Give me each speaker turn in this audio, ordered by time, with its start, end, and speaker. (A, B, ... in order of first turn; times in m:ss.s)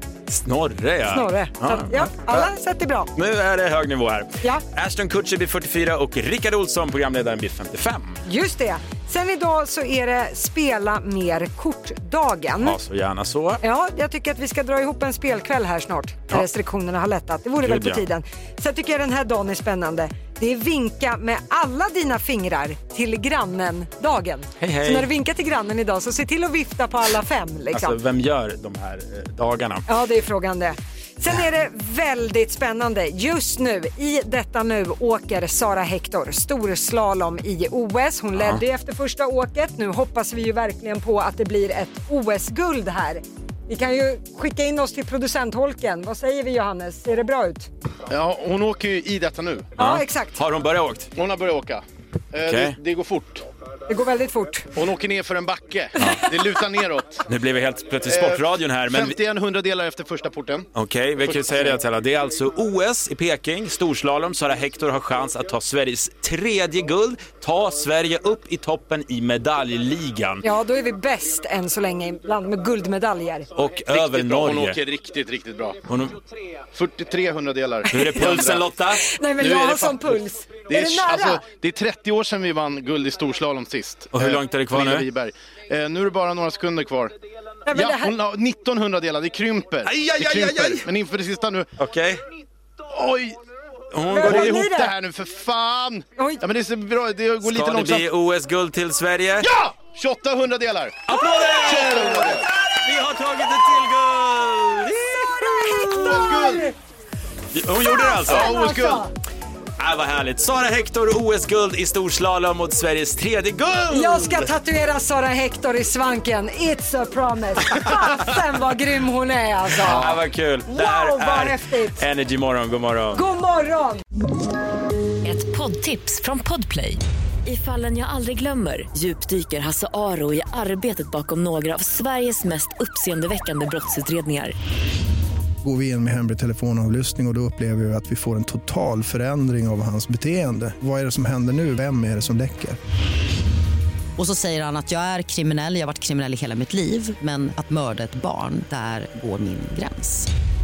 0:00.3-0:02.5 A
0:01.1-0:03.1 B
0:03.1-0:08.2 A
0:08.2-0:12.8 B
0:12.6-0:13.6 A
0:13.6-0:28.0 B
0:17.6-0:18.0 A
0:24.6-0:25.1 A
0:27.7-0:29.9 A
0:29.9-0:47.7 B
0:38.4-0:38.6 A
0:48.1-0:49.7 C
0:49.8-0:51.1 A
0:49.8-0:50.4 B
0:51.2-0:53.4 C
0:52.4-0:52.8 A
0:53.9-0:54.7 B
0:54.8-0:57.2 C
0:57.3-0:59.2 A
0:58.1-1:00.7 C
1:00.7-1:10.4 A
1:01.2-1:01.8 C
1:10.4-1:13.5 B
1:13.6-1:14.8 A
1:13.9-1:15.8 C
1:15.9-1:16.2 A
1:16.7-1:18.7 C
1:17.9-1:19.1 A
1:19.0-1:21.4 B
1:19.4-1:27.1 C
1:24.1-1:25.1 A
1:27.7-1:28.1 B
1:27.7-1:31.7 C
1:29.8-1:30.9 A
1:31.8-1:32.2 A
1:32.9-1:33.4 C
1:33.9-1:34.6 A
1:34.1-1:34.9 B
1:34.2-1:38.1 C
1:37.4-1:39.5 A
1:39.4-1:42.5 C
1:41.1-1:45.5 A
1:45.3-1:46.7 B
1:45.9-1:46.7 C
1:47.5-1:48.7 A
1:47.9-1:49.1 B
1:48.3-1:49.1 C
1:49.8-1:54.5 A
1:53.9-2:02.0 B
1:59.9-2:03.2 A
2:03.1-2:04.0 B
2:05.2-2:14.6 D
2:15.6-2:22.8 E
2:24.2-2:30.3 F